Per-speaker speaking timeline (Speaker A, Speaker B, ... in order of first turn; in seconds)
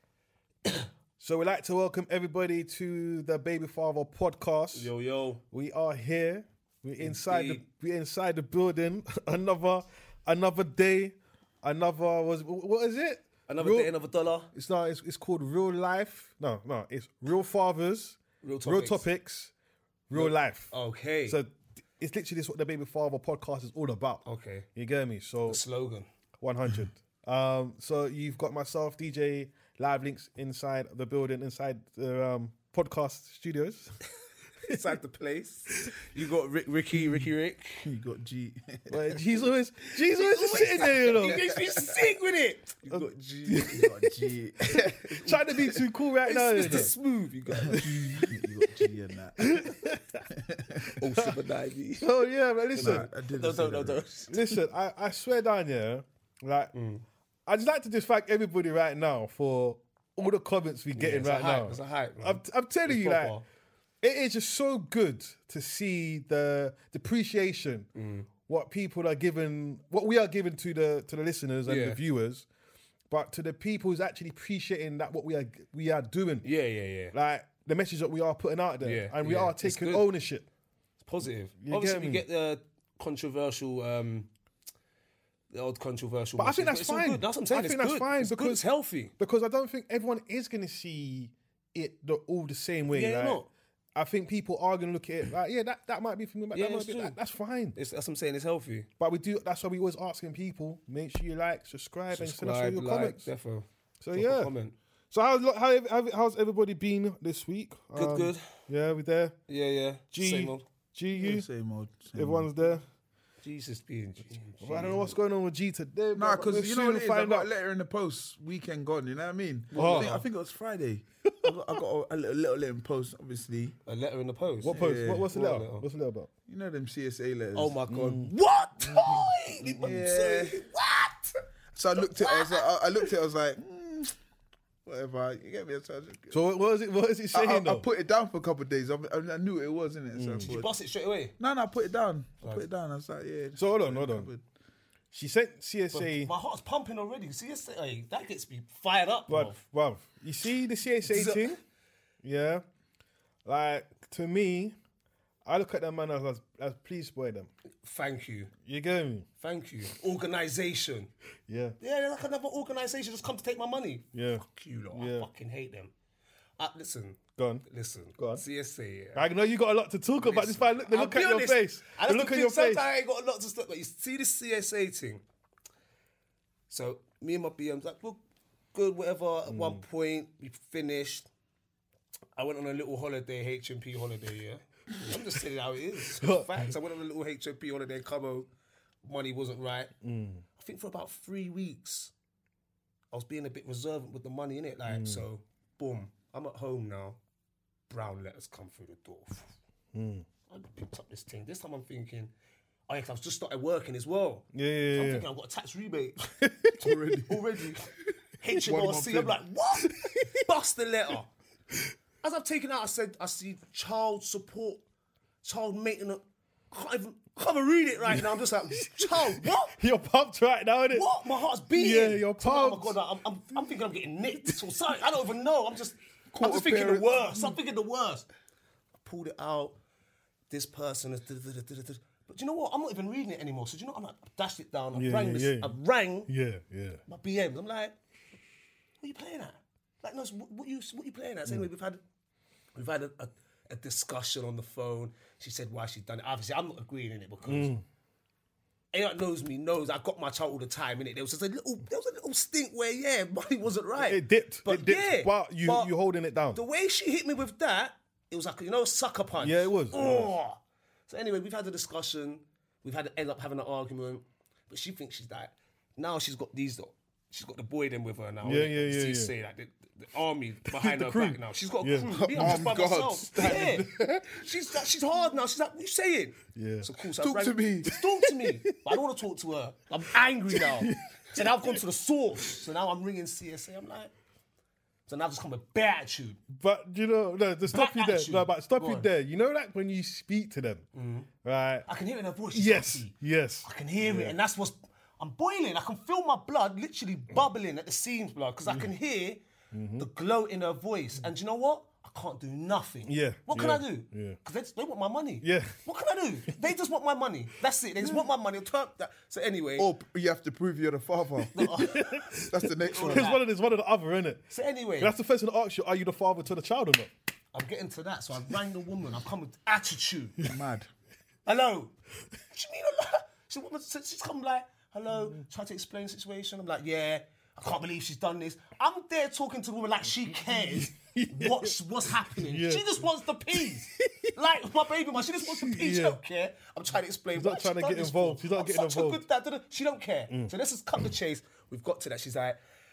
Speaker A: 1.2-4.9, 5.5-13.9, 14.5-19.5, 20.1-20.7, 21.2-24.2, 24.7-25.6, 26.4-33.9, 38.9-41.5, 42.9-44.1, 44.7-46.9, 48.2-50.3, 50.8-51.4, 52.0-53.0, 54.3-56.7, 57.5-63.4, 64.0-67.9, 68.5-72.5, 73.1-76.5, 77.1-80.4, 81.6-82.2, 86.4-88.6, 89.2-93.4, 93.9-97.8, 99.0-103.3, 104.0-104.5, 105.1-109.3, 110.1-111.5, 112.1-112.8, 114.6-117.5, 119.8-120.2, 124.6-126.3, 127.9-128.3, 128.9-129.2, 136.3-137.8, 140.1-140.5, 143.6-144.3, 145.1-146.3, 149.3-151.6, 152.2-152.6, 153.4-154.8, 155.4-157.5, 158.6-159.2, 161.5-161.8, 164.1-165.3, 167.4-167.6, 168.2-168.4, 169.1-172.8, 179.5-179.8, 186.1-186.7, 190.0-190.4, 194.9-195.2, 199.9-200.2, 204.5-205.2, 206.4-206.9, 210.0-210.3, 218.1-221.1, 221.7-222.9, 234.9-237.0, 247.4-247.8, 254.0-256.6, 259.4-260.3, 268.4-269.3, 270.7-272.7, 273.4-274.4, 276.5-276.9, 277.9-278.9, 280.5-281.8, 286.5-290.8, 291.4-291.9, 292.5-294.3, 299.7-300.1, 303.1-304.4, 305.4-305.8, 311.6-314.5, 315.0-317.1, 330.5-331.8, 332.3-334.3, 335.3-336.2, 337.3-339.2
Speaker B: 4.7-5.4, 7.0-7.6, 13.5-14.5, 18.4-19.0, 20.1-21.4, 24.2-24.7, 25.5-26.1, 34.6-37.9, 40.1-43.9, 46.2-48.3, 51.0-52.2, 52.7-54.5, 56.7-57.0, 60.9-63.4, 68.0-68.3, 71.6-72.0, 76.4-77.1, 78.8-80.1, 81.0-84.3, 85.5-89.1, 92.9-93.5, 96.5-97.2, 97.7-98.9, 102.1-104.7, 107.9-108.4, 109.5-110.6, 113.4-115.2, 119.7-120.2, 123.8-125.8, 127.5-131.4, 131.9-133.1, 140.4-141.3, 145.9-149.6, 151.1-151.6, 157.8-158.5, 159.4-161.1, 161.8-165.9, 166.6-169.3, 170.2-175.2, 176.7-178.2, 178.7-181.3, 182.4-188.5, 189.0-189.9, 190.6-192.1, 193.1-197.2, 197.9-199.5, 200.5-202.3, 202.9-206.3, 206.8-211.3, 212.2-214.8, 215.4-219.8, 220.9-228.3, 229.0-229.8, 230.5-236.3, 237.1-237.9, 239.0-242.0, 242.7-247.7, 248.9-255.9, 256.5-284.1, 285.1-286.4, 287.7-289.1, 290.9-291.3, 291.9-293.1, 293.6-299.4, 300.0-309.9, 311.5-312.2, 312.9-313.4, 314.5-315.1, 317.5-320.4, 321.4-321.9, 322.5-342.6
Speaker C: 37.8-39.2, 41.1-41.8, 43.7-45.8, 47.6-49.7, 50.3-51.0, 52.8-54.0, 111.2-112.5, 116.2-123.7, 124.7-125.3, 126.5-127.7, 129.8-130.6, 131.7-134.1, 134.8-136.4, 137.3-140.7, 141.4-144.4, 206.8-207.4, 208.6-209.4, 226.3-227.4, 272.1-273.8, 277.2-277.9, 309.8-311.7, 312.3-313.3, 320.4-320.9